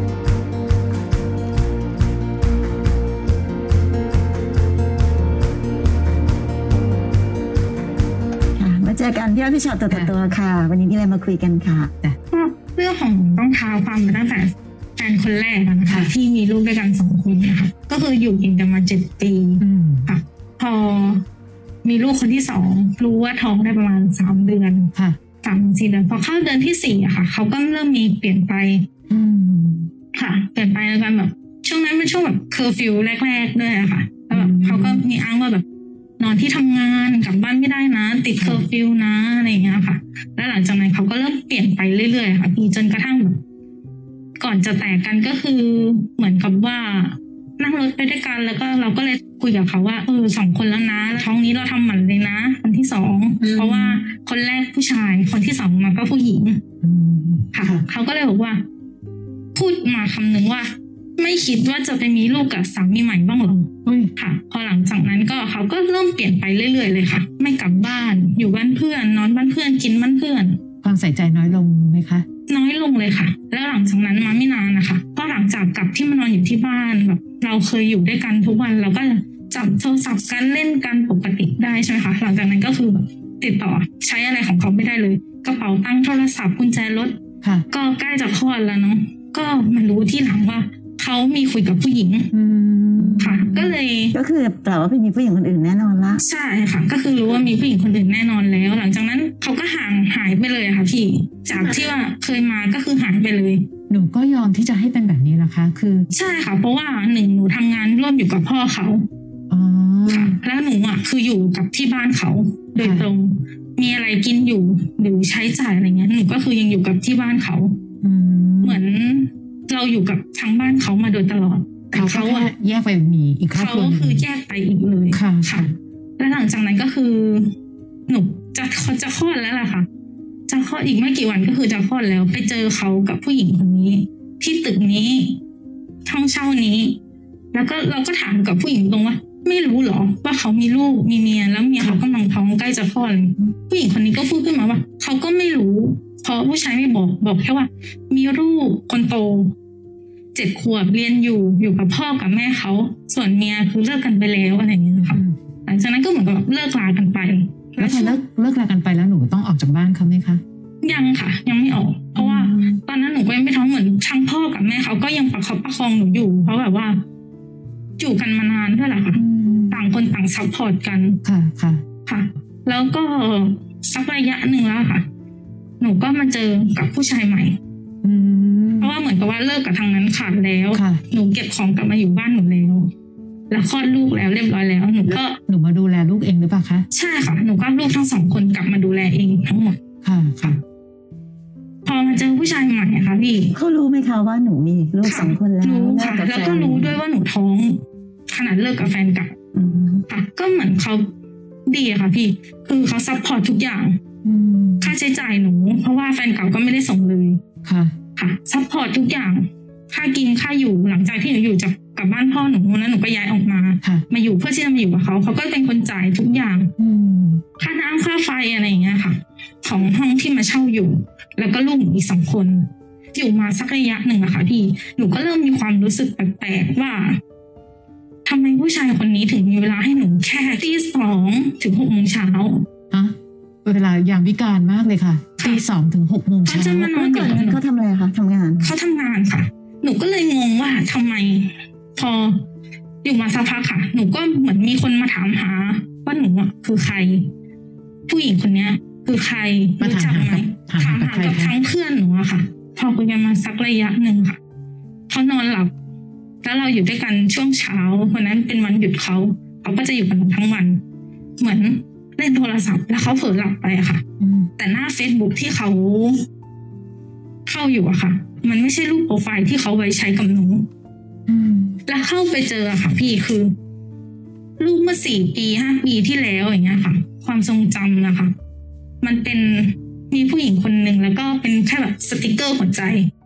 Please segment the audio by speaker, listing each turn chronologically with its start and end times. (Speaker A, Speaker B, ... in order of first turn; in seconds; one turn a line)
Speaker A: 8.6-11.9
Speaker B: 12.3-21.2
Speaker C: 15.9-16.1
Speaker C: 19.6-20.1
Speaker B: 21.8-28.9
Speaker C: 29.1-29.9
Speaker B: 30.1-35.6
Speaker C: 34.3-35.0
Speaker B: 36.2-43.4
Speaker C: 38.4-38.7
Speaker B: 44.4-56.6
Speaker C: 53.4-54.1
Speaker C: 56.8-57.9
Speaker B: 57.5-58.6
Speaker B: 59.5-70.6
Speaker C: 63.9-64.1
Speaker C: 70.8-72.3
Speaker B: 72.5-92.3
Speaker C: 87.4-87.7
Speaker C: 92.3-93.7
Speaker B: 93.2-94.2
Speaker A: 94.1-96.2
Speaker B: 96.2-103.7
Speaker C: 101.5-101.8
Speaker C: 103.9-106.1
Speaker B: 106.1-109.1
Speaker C: 109.5-110.4
Speaker B: 110.1-117.8
Speaker C: 112.8-113.1
Speaker C: 118.0-118.8
Speaker B: 118.6-122.5
Speaker C: 121.9-124.3
Speaker B: 123.5-127.5
Speaker C: 125.1-125.7
Speaker B: 128.1-129.9
Speaker B: 130.5-135.4
Speaker B: 136.1-137.0
Speaker B: 137.5-149.5
Speaker B: 150.3-158.2
Speaker C: 155.1-155.4
Speaker C: 157.8-160.4
Speaker B: 160.8-167.0
Speaker C: 162.2-162.8
Speaker B: 168.0-171.2
Speaker C: 169.2-169.8
Speaker C: 171.2-171.8
Speaker B: 172.1-175.1
Speaker B: 175.8-177.6
Speaker C: 178.0-178.9
Speaker B: 178.8-182.9
Speaker C: 180.7-181.0
Speaker B: 183.5-185.4
Speaker C: 185.5-186.9
Speaker B: 186.9-189.8
Speaker C: 190.0-190.6
Speaker B: 191.8-193.6
Speaker A: 193.5-197.0
Speaker B: 195.0-199.3
Speaker A: 199.5-200.1
Speaker B: 200.1-201.1
Speaker B: 201.7-204.0
Speaker C: 204.2-205.0
Speaker B: 204.8-207.4
Speaker C: 207.6-207.9
Speaker B: 208.2-216.7
Speaker C: 216.8-217.4
Speaker B: 217.6-227.2
Speaker B: 228.2-232.7
Speaker C: 232.9-236.9
Speaker B: 236.4-237.6
Speaker A: 236.8-238.7
Speaker B: 238.6-242.4
Speaker B: 243.0-247.3
Speaker B: 248.1-254.4
Speaker C: 249.8-251.6
Speaker B: 255.1-255.7
Speaker B: 256.4-260.8
Speaker B: 261.4-264.0
Speaker C: 264.2-264.5
Speaker B: 264.6-266.2
Speaker B: 267.5-270.7
Speaker C: 271.3-271.8
Speaker B: 271.9-273.6
Speaker B: 274.6-278.3
Speaker B: 279.0-283.1